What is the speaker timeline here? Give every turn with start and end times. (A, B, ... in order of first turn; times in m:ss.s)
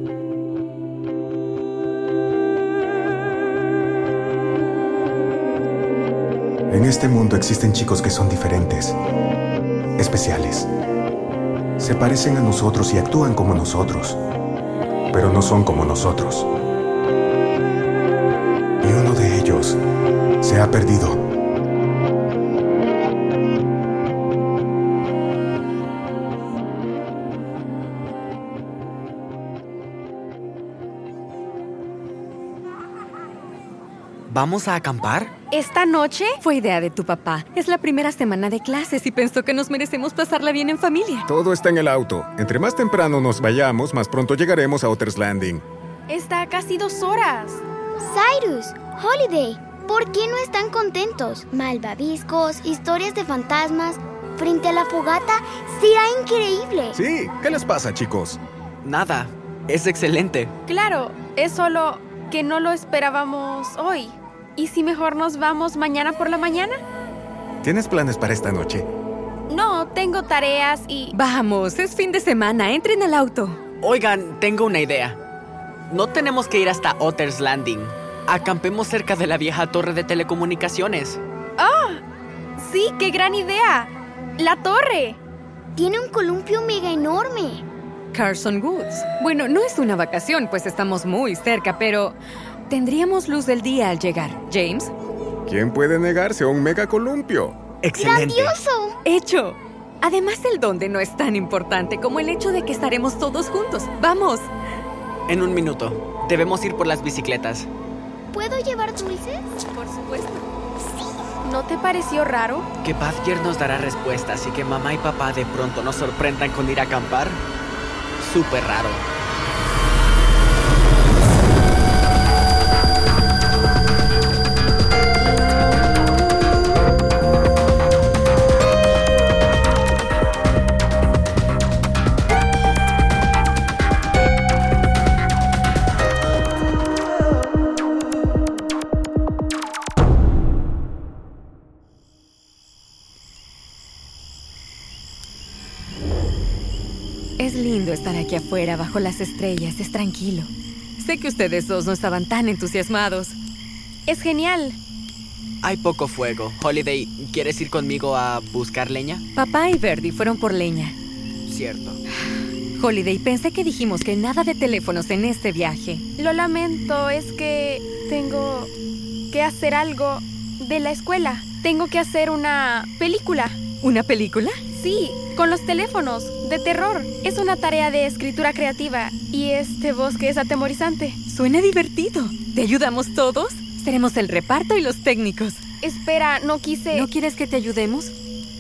0:06.7-0:09.0 A
0:10.0-0:10.7 A
0:11.8-0:14.2 A
0:15.1-0:16.5 A
0:18.8-0:19.8 A
0:20.4-0:21.2 A
0:34.3-0:35.3 B
0:35.5-0:36.3 C
0:36.4-0:41.2 D
0:41.3-0:45.6 A
0:46.1-0:47.6 C
0:48.0-0:57.0 E
0:56.9-0:58.4 A
0:58.8-1:00.5 B
1:00.7-1:06.8 C
1:07.6-1:08.9 A
1:09.5-1:11.1 C
1:11.1-1:13.6 D
1:13.8-1:15.2 B
1:15.9-1:21.2 B
1:21.6-1:22.0 C
1:22.6-1:25.2 C
1:25.8-1:27.6 E
1:28.1-1:32.2 D
1:32.7-1:34.9 D
1:35.5-1:37.6 A
1:37.8-1:38.6 B
1:37.9-1:39.0 E
1:39.0-1:44.5 D
1:45.3-1:47.7 B
1:48.3-1:49.5 E
1:49.7-1:50.4 D
1:51.4-1:52.7 C
1:52.8-1:57.4 B
1:58.2-1:59.1 B
2:27.4-2:33.4 D
2:34.1-2:34.8 C
2:35.6-2:39.2 B
2:39.4-2:40.9 D
2:41.5-2:42.0 B
2:42.8-2:46.0 D
2:46.2-2:48.7 C
2:49.3-2:53.6 C
2:53.8-2:54.6 D
2:54.7-3:01.2 C
3:01.2-3:05.6 D
3:05.8-3:07.1 C
3:06.9-3:08.1 D